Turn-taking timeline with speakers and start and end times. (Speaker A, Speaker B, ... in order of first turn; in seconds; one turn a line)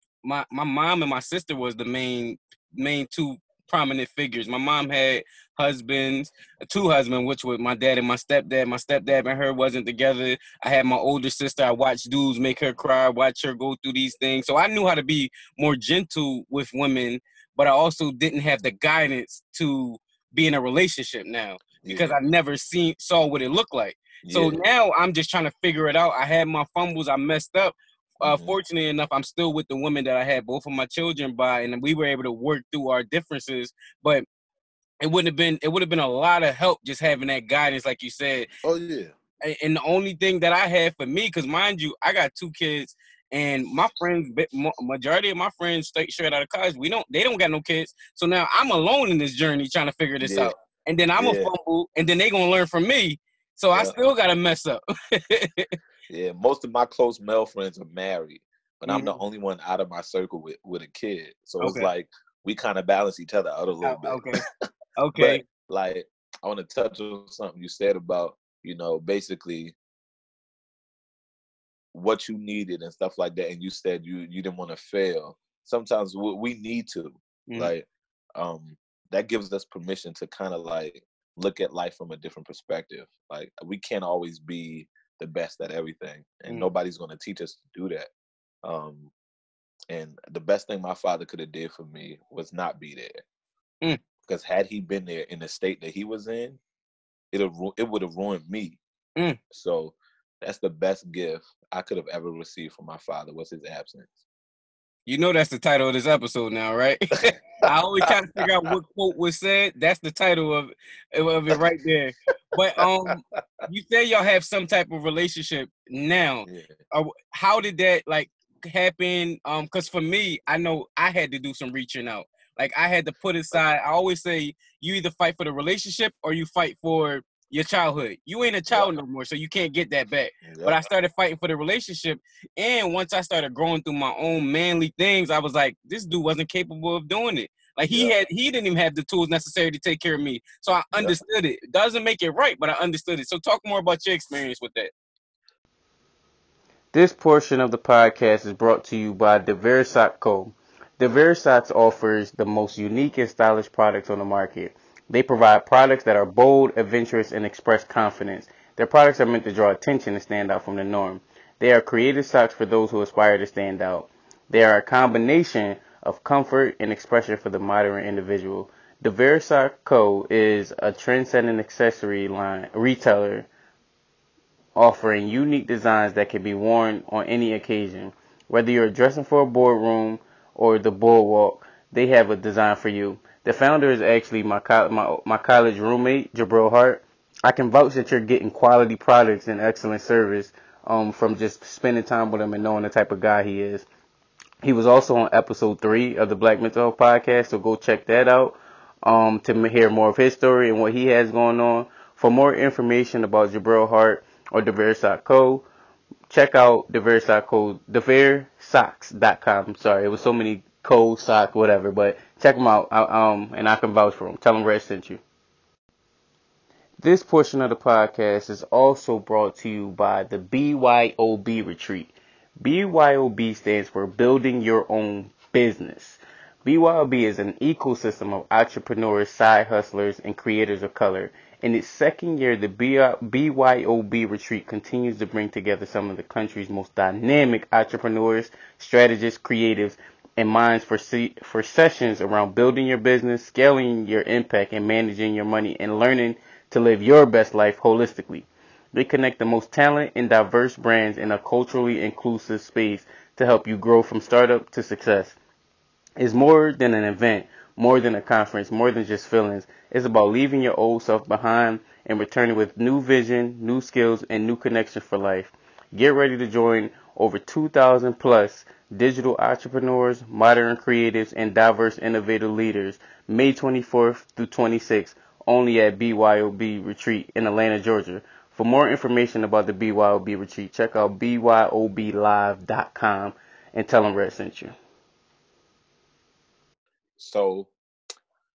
Speaker A: 0.2-34.2
Speaker B: 21.8-22.2
Speaker B: 24.2-24.6
Speaker B: 28.2-28.6
Speaker A: 35.0-38.5
Speaker B: 38.6-39.1
Speaker A: 39.4-55.8
Speaker B: 50.2-50.5
Speaker B: 51.2-51.5
Speaker B: 56.1-64.2
Speaker A: 58.9-59.2
Speaker A: 61.6-61.9
Speaker A: 63.8-64.4
Speaker A: 65.0-65.4
Speaker B: 65.2-69.8
Speaker B: 71.9-88.1
Speaker B: 88.6-89.1
Speaker B: 89.9-93.2
Speaker B: 94.2-96.6
Speaker B: 97.3-98.8
Speaker B: 99.5-104.2
Speaker A: 105.1-144.9
Speaker B: 107.7-108.8
Speaker B: 113.1-113.7
Speaker B: 116.5-116.7
Speaker B: 128.7-129.0
Speaker B: 130.4-130.8
Speaker C: 146.9-173.5
Speaker C: 174.8-193.9
Speaker C: 194.6-205.7
Speaker C: 206.3-215.2
Speaker C: 217.0-255.4
Speaker C: 256.2-284.8
Speaker B: 287.2-287.7